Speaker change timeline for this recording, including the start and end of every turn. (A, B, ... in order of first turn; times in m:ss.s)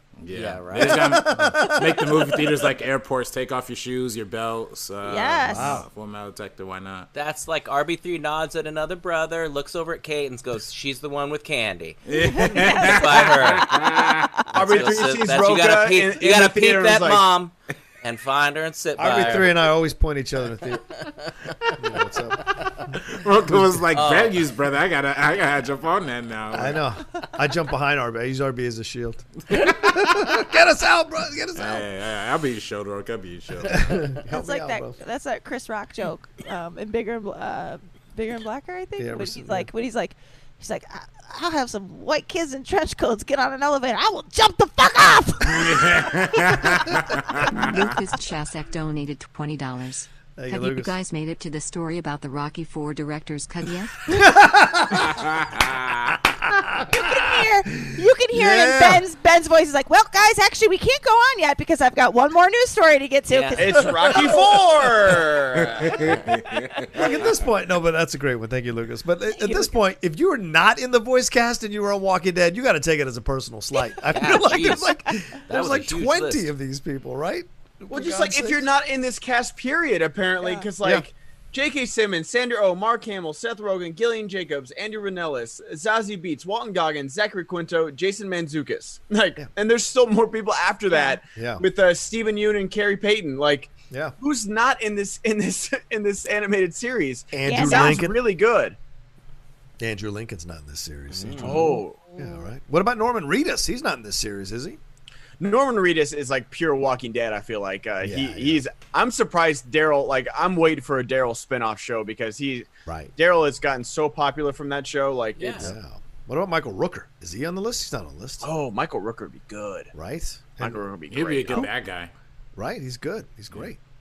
0:00.2-0:07.1 A
0:00.3-0:01.2 B
0:00.8-0:02.7 C
0:05.0-0:05.8 D
0:05.5-0:05.9 C
0:07.1-0:13.9 B
0:12.1-0:14.4 A
0:12.3-0:13.0 D
0:13.7-0:14.2 D
0:14.4-0:19.7 B
0:14.5-0:17.3 E
0:19.0-0:21.0 C
0:21.0-0:21.5 B
0:21.8-0:23.8 C
0:23.0-0:26.8 A
0:23.9-0:24.4 B
0:26.5-0:31.8 C
0:29.5-0:30.4 A
0:31.5-0:34.0 A
0:33.7-0:35.0 C
0:34.3-0:46.6 D
0:39.0-0:39.7 C
0:45.5-0:47.5 A
0:47.4-0:54.2 F
0:50.4-0:50.9 C
0:54.1-0:55.2 C
0:55.1-0:56.2 A
0:56.3-0:59.0 C
0:56.9-1:04.4 D
1:03.3-1:03.7 B
1:03.6-1:05.8 E
1:03.8-1:04.6 C
1:05.7-1:07.1 A
1:05.7-1:06.0 B
1:06.9-1:18.7 C
1:09.3-1:09.7 D
1:14.1-1:14.9 B
1:14.2-1:15.1 D
1:15.4-1:16.5 B
1:17.9-1:38.8 E
1:20.4-1:20.7 D
1:30.9-1:31.2 D
1:31.3-1:31.6 C
1:33.9-1:34.1 C
1:37.3-1:38.2 C
1:37.4-1:38.0 D
1:39.8-1:44.8 C
1:41.1-1:41.8 B
1:41.4-1:42.0 E
1:45.4-1:55.7 E
1:48.0-1:48.6 C
1:52.8-1:53.1 C
1:55.4-1:55.7 B
1:55.6-1:58.5 C
1:58.4-1:59.9 E
1:59.9-2:00.8 C
2:00.6-2:01.7 E
2:01.1-2:02.1 A
2:02.6-2:03.8 C